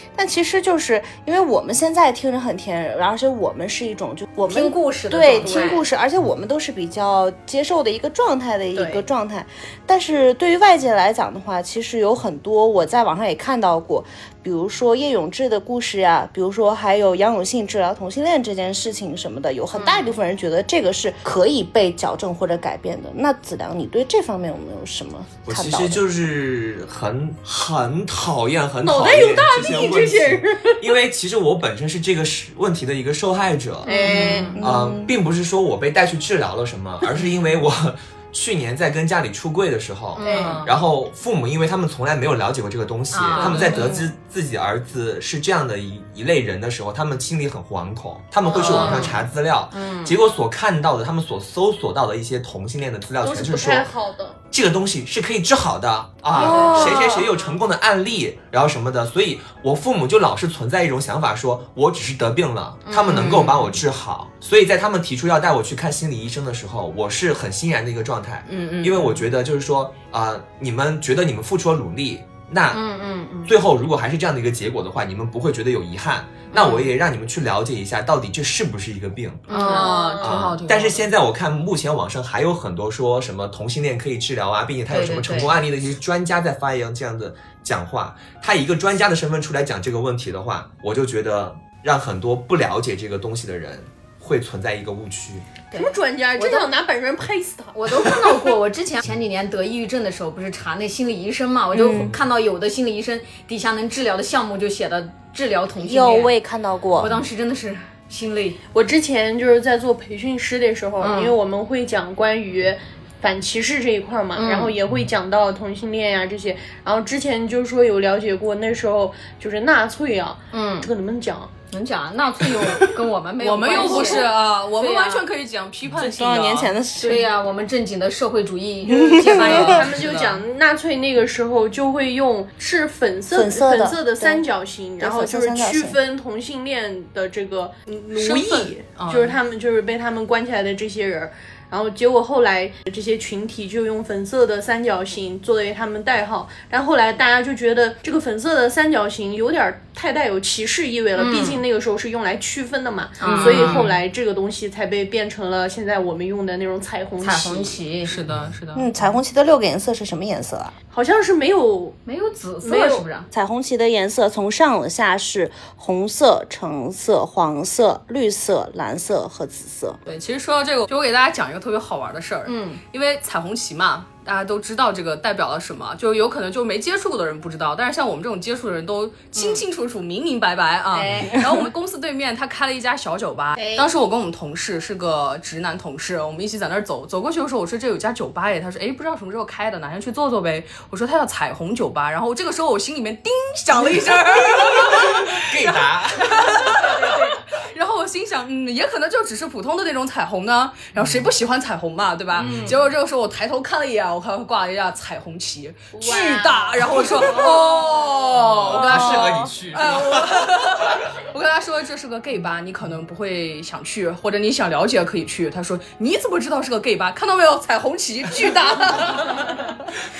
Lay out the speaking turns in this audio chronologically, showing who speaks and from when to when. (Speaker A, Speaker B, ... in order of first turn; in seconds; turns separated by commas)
Speaker A: 0.1-26.0, Speaker B: 4.5-5.8, Speaker C: 5.4-5.7, Speaker C: 8.7-9.0, Speaker D: 25.4-53.9, Speaker C: 28.8-30.8, Speaker C: 33.8-34.6, Speaker B: 33.9-34.5, Speaker A: 34.5-35.1, Speaker C: 40.2-40.7, Speaker B: 40.2-40.7, Speaker B: 43.1-43.8, Speaker E: 43.4-44.0, Speaker A: 43.7-44.0, Speaker C: 48.5-49.1, Speaker E: 48.5-49.1, Speaker B: 48.5-49.1, Speaker B: 49.7-50.2, Speaker C: 53.2-54.4, Speaker D: 54.5-72.8, Speaker B: 56.4-57.2, Speaker C: 56.4-56.9, Speaker B: 62.9-63.5, Speaker E: 63.2-63.5, Speaker E: 68.5-69.2, Speaker B: 72.7-73.5, Speaker D: 73.5-79.7, Speaker B: 76.5-76.8, Speaker B: 79.5-79.9, Speaker E: 79.5-81.0, Speaker C: 79.6-80.5, Speaker D: 80.2-95.5, Speaker B: 84.9-85.5, Speaker B: 95.7-96.7, Speaker C: 95.7-98.1, Speaker B: 97.7-106.3, Speaker A: 101.7-102.2, Speaker A: 105.8-107.2, Speaker B: 107.0-108.6, Speaker C: 108.7-121.5, Speaker B: 111.0-111.3, Speaker B: 114.3-114.7, Speaker B: 120.5-120.9, Speaker B: 121.7-124.2, Speaker E: 123.4-126.7, Speaker C: 123.7-124.2, Speaker B: 124.8-125.2, Speaker A: 125.9-127.3, Speaker B: 127.0-129.8, Speaker A: 128.8-129.9, Speaker E: 129.3-130.4, Speaker C: 129.6-157.8, Speaker A: 133.3-134.4, Speaker A: 135.0-136.0, Speaker E: 138.1-139.4, Speaker B: 151.1-151.6, Speaker B: 153.2-153.8, Speaker E: 153.2-154.0, Speaker B: 157.2-158.1, Speaker E: 158.1-158.9, Speaker D: 158.2-158.5, Speaker A: 158.8-160.7, Speaker C: 160.9-162.0, Speaker B: 162.1-163.3, Speaker C: 162.6-163.0, Speaker A: 163.3-170.0, Speaker E: 170.1-219.8, Speaker B: 172.4-172.8, Speaker B: 179.3-179.6, Speaker B: 181.0-181.3, Speaker C: 181.0-181.3, Speaker C: 183.6-183.9, Speaker D: 194.1-196.7, Speaker B: 196.5-197.4, Speaker D: 201.0-201.2, Speaker D: 202.4-202.8, Speaker B: 202.4-202.7, Speaker C: 205.9-207.9, Speaker D: 208.3-210.9